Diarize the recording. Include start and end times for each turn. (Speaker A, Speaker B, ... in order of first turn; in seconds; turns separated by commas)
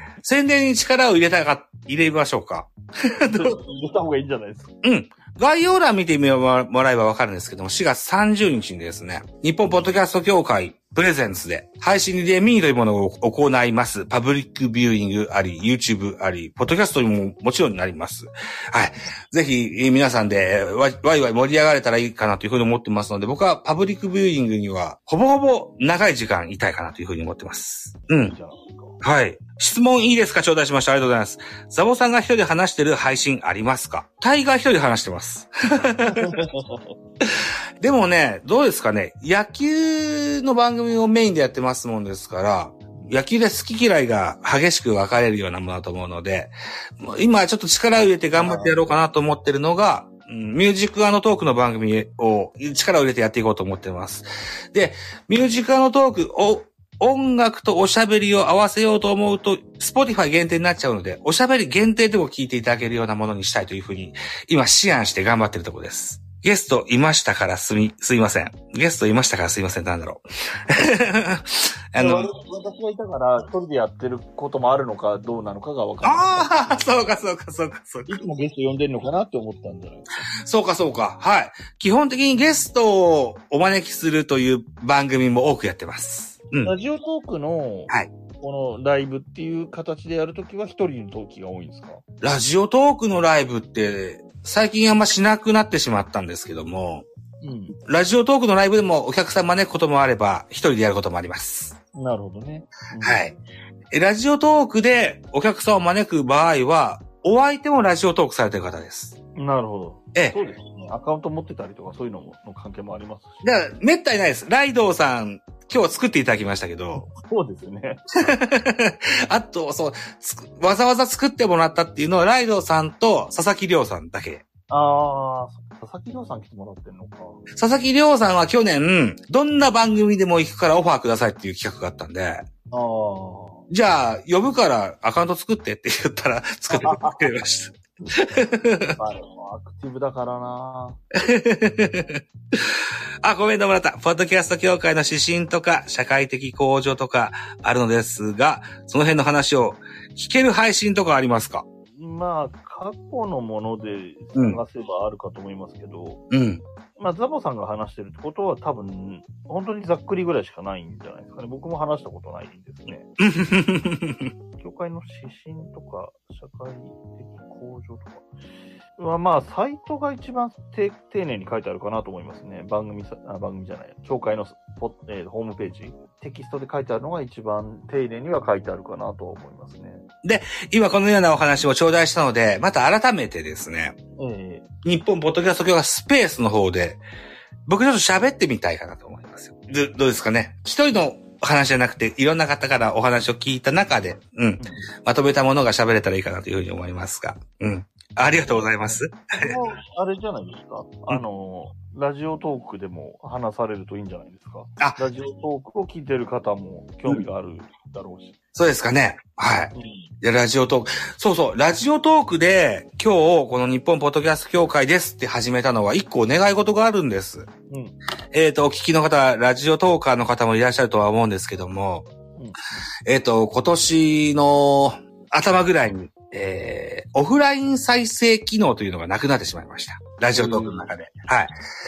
Speaker A: 0.2-3.5, Speaker B: 3.3-4.7, Speaker A: 4.8-28.3, Speaker B: 28.1-29.0, Speaker A: 29.0-36.4, Speaker B: 36.1-36.9, Speaker A: 37.2-72.3, Speaker B: 48.3-48.8, Speaker B: 72.0-76.5, Speaker A: 76.0-78.2, Speaker B: 78.1-80.3, Speaker A: 80.3-86.7, Speaker B: 86.6-92.0, Speaker A: 92.2-97.0, Speaker B: 97.4-97.8, Speaker A: 97.8-101.8, Speaker B: 101.9-103.2, Speaker A: 103.0-103.4, Speaker A: 103.9-109.2, Speaker B: 109.3-113.6, Speaker A: 110.1-110.4, Speaker A: 113.4-117.1, Speaker B: 116.9-118.0, Speaker A: 118.2-124.4, Speaker B: 124.7-127.4, Speaker A: 127.5-132.4, Speaker B: 132.7-133.7, Speaker A: 133.7-139.0, Speaker B: 136.7-137.3, Speaker B: 138.0-138.3, Speaker B: 138.9-141.0, Speaker A: 141.2-151.6, Speaker B: 151.9-156.2, Speaker A: 154.3-154.6, Speaker A: 156.3-156.6, Speaker B: 157.0-163.1, Speaker A: 163.2-164.3, Speaker B: 164.6-168.3, Speaker B: 169.0-180.1, Speaker A: 180.2-183.9, Speaker B: 184.2-184.7, Speaker A: 184.8-187.0, Speaker A: 187.7-199.6, Speaker B: 194.6-194.9, Speaker B: 198.3-208.3, Speaker A: 208.5-217.5, Speaker B: 209.7-210.1, Speaker B: 217.7-217.9, Speaker A: 218.3-222.1, Speaker B: 222.3-222.8, Speaker A: 223.1-231.5, Speaker B: 230.3-230.9